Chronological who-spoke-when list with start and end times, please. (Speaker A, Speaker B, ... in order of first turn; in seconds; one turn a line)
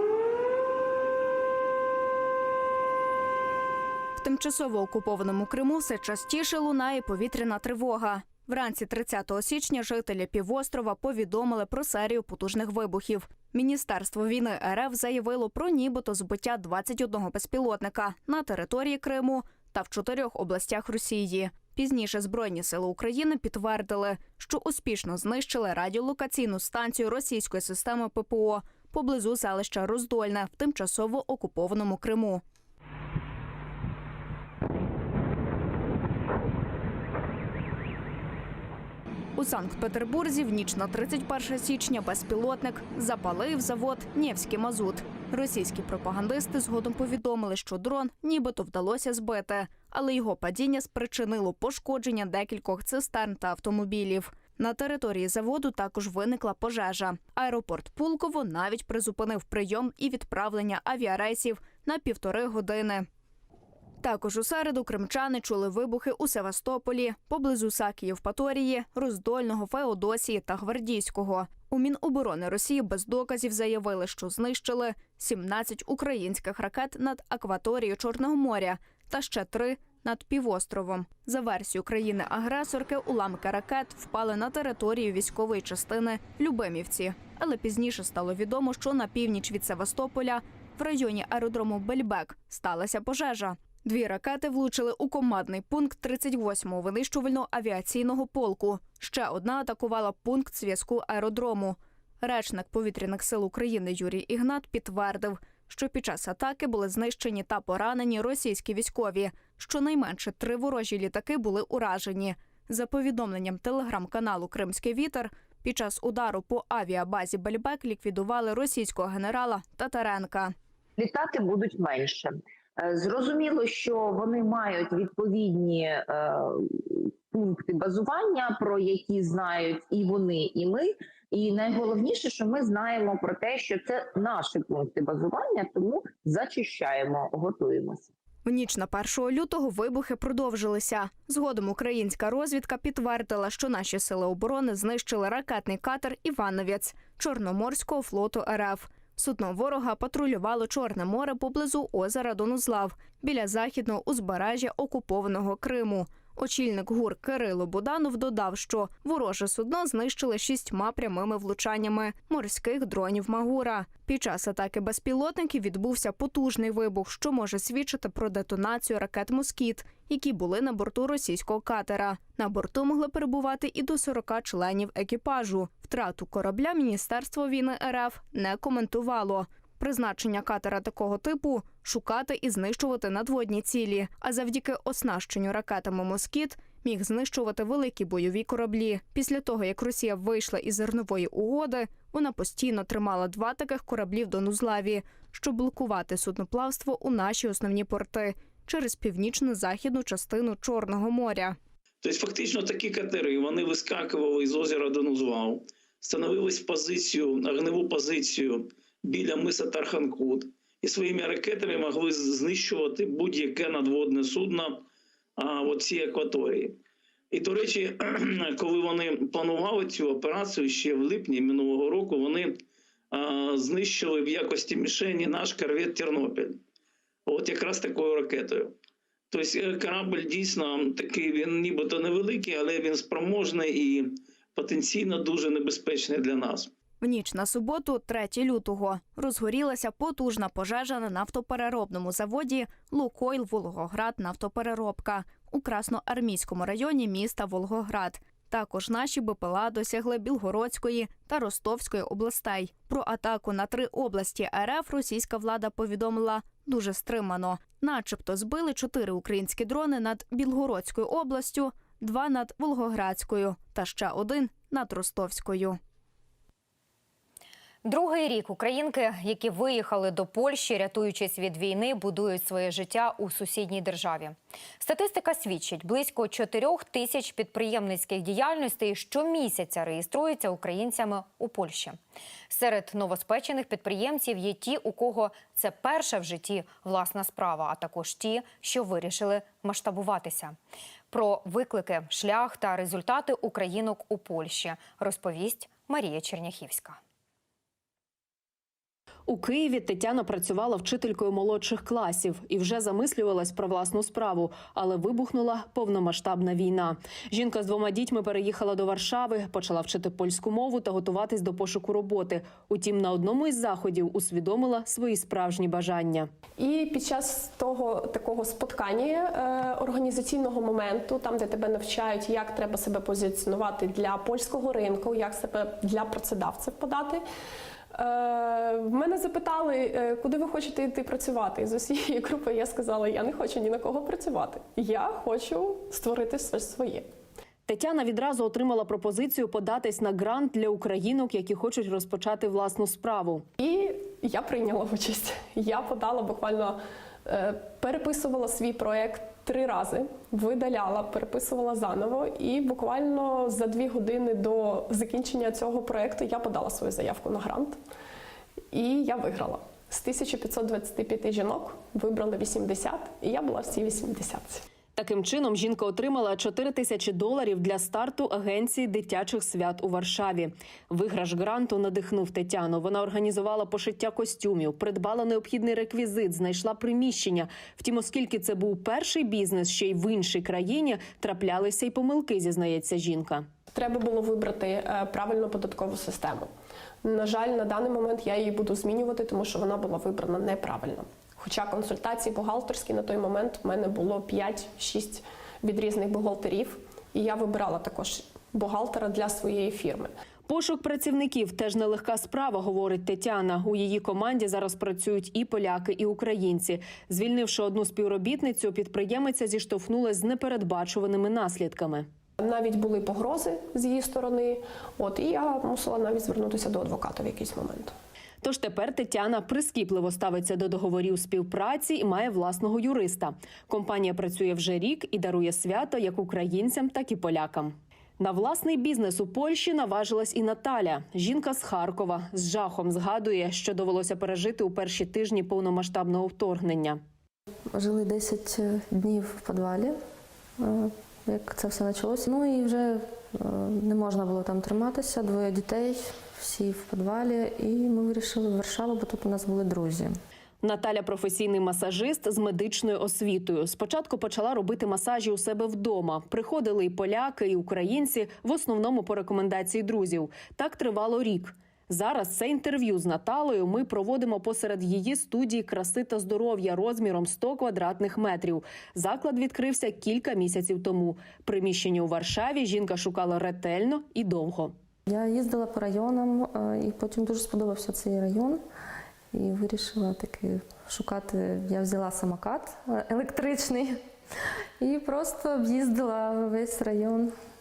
Speaker A: 4.2-32.4
Speaker A: 39.4-63.1
Speaker A: 64.0-120.5
Speaker B: 121.0-138.1
Speaker A: 138.4-201.6
Speaker C: 202.0-214.8
Speaker C: 215.4-216.8
Speaker C: 217.3-222.6
Speaker C: 223.1-226.6
Speaker C: 227.3-228.7
Speaker C: 229.3-236.7
Speaker A: 237.0-265.8
Speaker D: 267.8-282.0
Speaker D: 282.5-290.6
Speaker D: 291.1-297.0
Speaker E: 299.3-316.3
Speaker F: 316.6-327.2
Speaker F: 327.9-337.1
Speaker E: 337.7-343.4
Speaker F: 343.6-357.8
Speaker F: 358.7-364.6
Speaker E: 364.9-383.5
Speaker F: 383.7-386.5
Speaker F: 387.0-400.1
Speaker E: 400.5-412.1
Speaker F: 412.4-417.9
Speaker E: 418.4-437.0
Speaker G: 437.7-439.9
Speaker G: 440.6-450.1
Speaker E: 450.6-474.7
Speaker G: 475.1-478.6
Speaker G: 479.3-484.0
Speaker G: 484.8-487.3